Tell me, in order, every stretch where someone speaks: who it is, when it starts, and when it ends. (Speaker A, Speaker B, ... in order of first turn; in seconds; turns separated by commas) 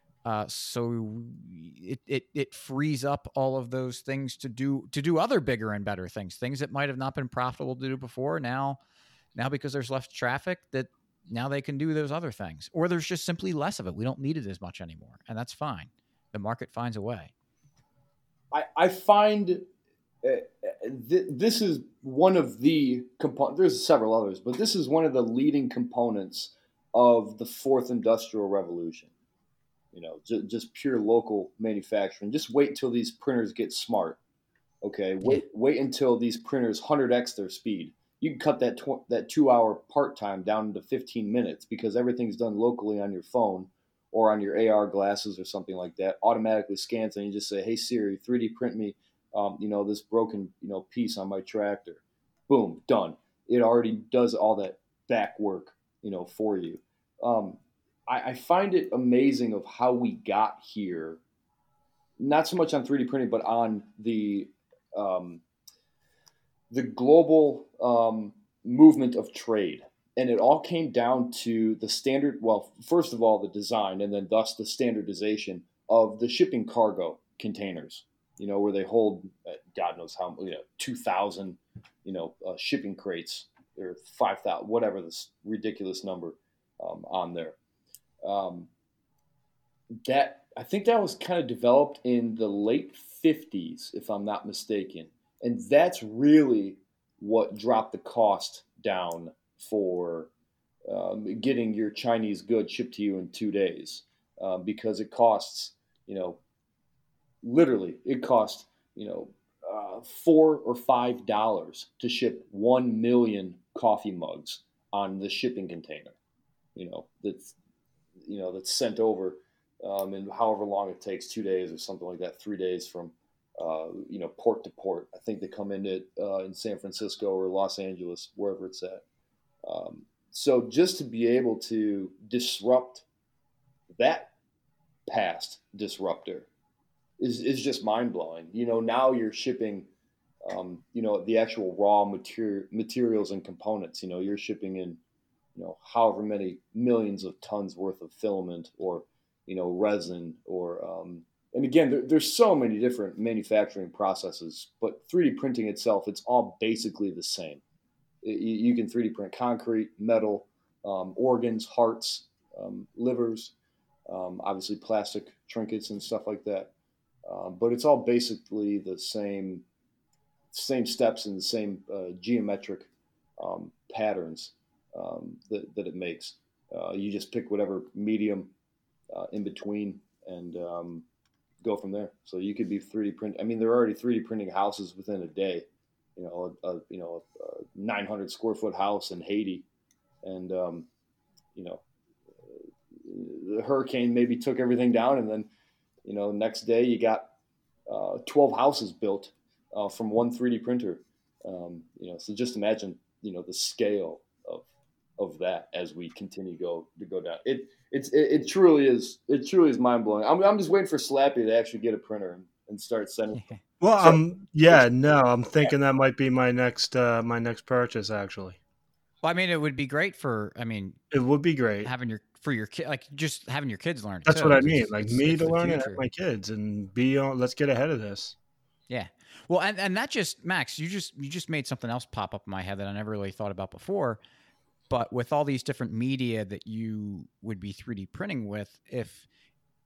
Speaker A: 0.2-8.8, Speaker A: 9.3-17.3, Speaker B: 18.5-19.6, Speaker B: 20.2-29.1, Speaker B: 29.9-34.2, Speaker B: 34.8-61.2, Speaker B: 62.2-65.4, Speaker B: 66.7-87.6, Speaker B: 88.2-88.7, Speaker B: 90.0-100.3, Speaker B: 100.9-106.4, Speaker B: 107.4-116.2, Speaker B: 116.8-117.5, Speaker B: 118.2-129.0, Speaker B: 129.7-133.1, Speaker B: 133.9-134.3, Speaker B: 135.1-136.5, Speaker B: 137.2-139.9, Speaker B: 140.4-145.0, Speaker B: 145.6-157.6, Speaker B: 158.2-163.5, Speaker B: 164.1-166.7, Speaker B: 167.3-169.6, Speaker B: 170.5-178.5, Speaker B: 179.1-181.1, Speaker B: 181.6-189.7, Speaker B: 190.2-190.9, Speaker B: 191.6-191.8, Speaker B: 192.5-195.5, Speaker B: 196.0-197.3, Speaker B: 197.9-204.7, Speaker B: 205.2-213.4, Speaker A: 213.3-213.6, Speaker C: 213.8-218.6, Speaker A: 219.2-221.0, Speaker C: 221.1-221.9, Speaker A: 221.8-226.0, Speaker C: 224.3-228.3, Speaker A: 228.9-234.2, Speaker A: 234.9-239.3